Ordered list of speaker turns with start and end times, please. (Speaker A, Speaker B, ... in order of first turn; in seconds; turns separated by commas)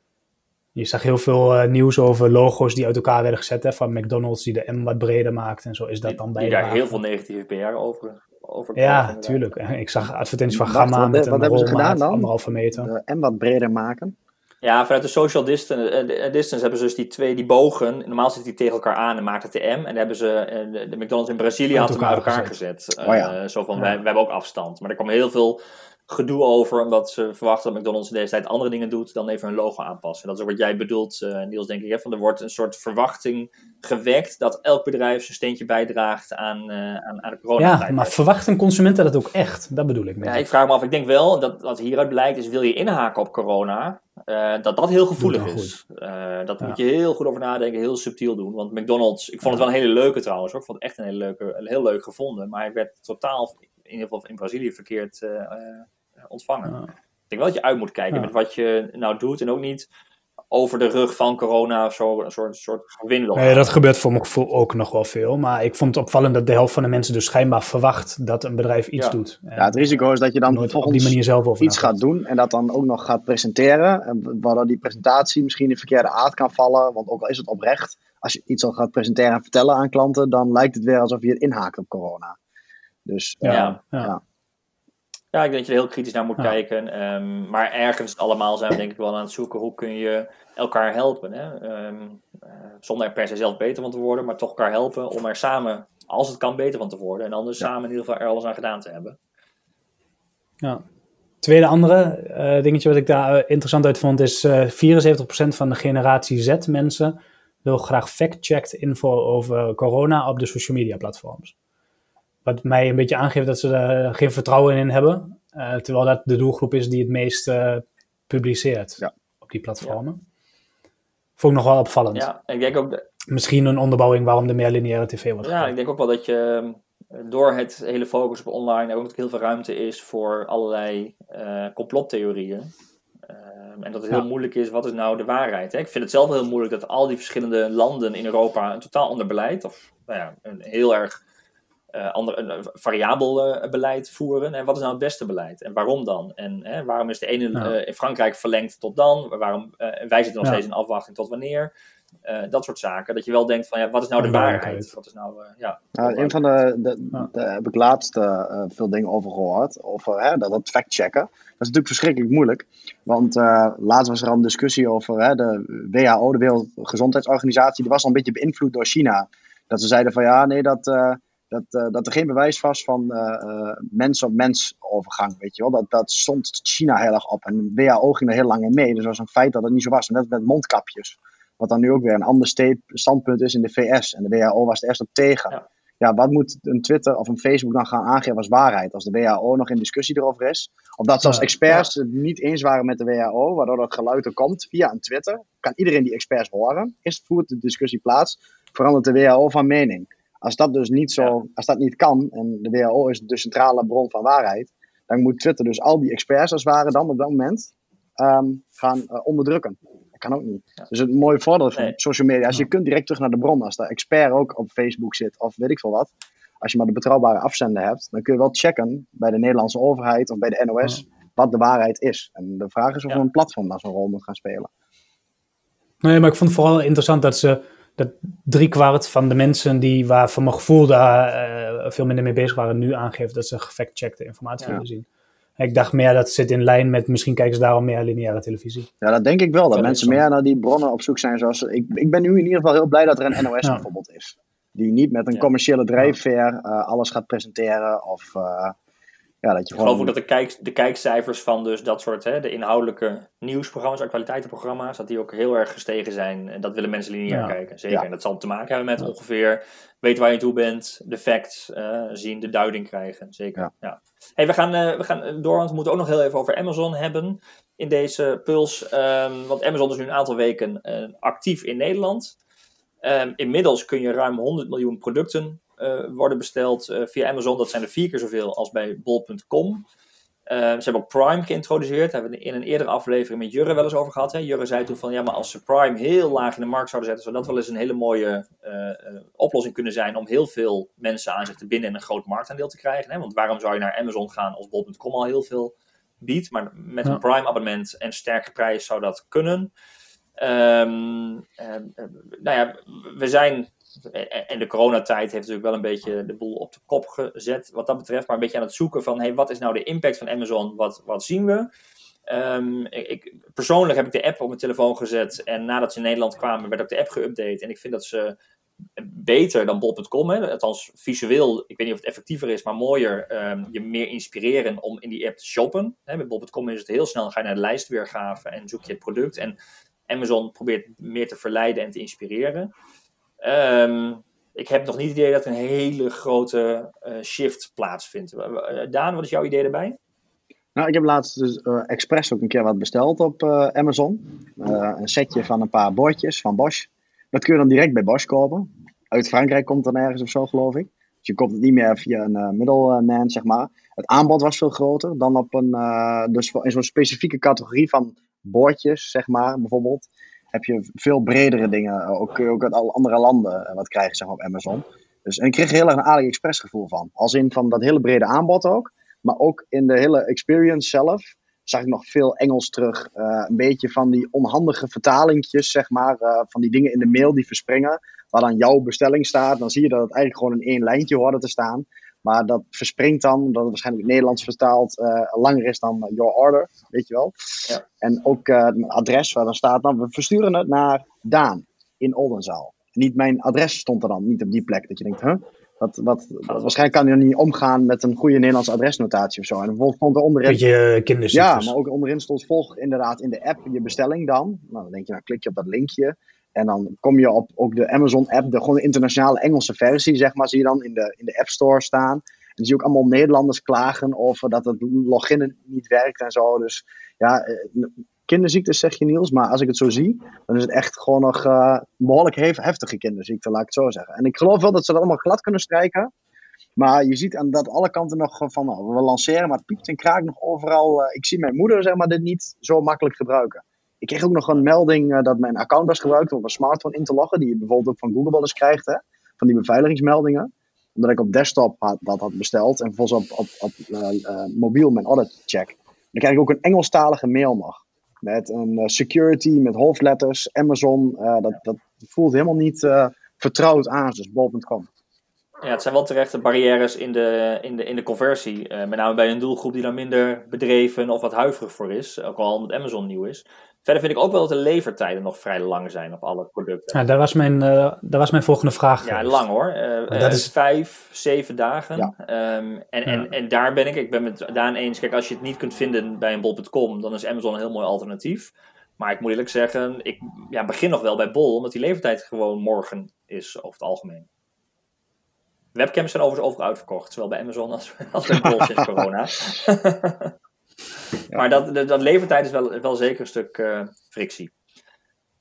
Speaker A: 0.7-7.0, Speaker B: 6.0-9.5, Speaker A: 8.8-12.9, Speaker C: 10.5-14.1, Speaker B: 14.6-38.1, Speaker A: 21.7-22.5, Speaker C: 23.0-23.4, Speaker A: 37.6-40.4, Speaker B: 40.2-56.8, Speaker A: 45.2-45.8, Speaker B: 57.3-59.9, Speaker B: 60.5-63.7, Speaker A: 63.3-69.8, Speaker C: 69.6-82.4, Speaker A: 70.5-72.0, Speaker C: 83.0-84.2, Speaker A: 83.4-84.1, Speaker B: 83.5-83.8, Speaker B: 85.3-99.2, Speaker A: 101.4-111.5, Speaker A: 112.4-120.2, Speaker A: 121.4-122.3, Speaker B: 122.1-123.0, Speaker A: 123.3-125.7, Speaker B: 125.4-132.7, Speaker B: 133.3-141.2, Speaker B: 141.9-151.7, Speaker B: 152.2-156.4, Speaker A: 154.2-154.9, Speaker C: 156.0-224.7, Speaker A: 226.0-235.1, Speaker A: 235.6-238.9, Speaker C: 239.0-248.8, Speaker B: 239.7-240.2, Speaker C: 249.4-250.1, Speaker B: 249.7-272.3, Speaker A: 257.3-257.5, Speaker B: 273.0-279.8, Speaker B: 280.5-299.7, Speaker B: 300.4-311.7, Speaker B: 312.3-318.3, Speaker B: 319.0-329.5, Speaker B: 330.1-332.7, Speaker B: 333.4-340.0, Speaker C: 340.7-400.6, Speaker B: 396.5-396.9, Speaker A: 400.4-401.7, Speaker C: 401.3-426.1, Speaker C: 426.8-454.9, Speaker B: 455.6-466.9, Speaker A: 466.9-469.4, Speaker B: 469.0-484.2, Speaker A: 470.1-470.5, Speaker B: 485.7-490.3, Speaker B: 491.3-494.5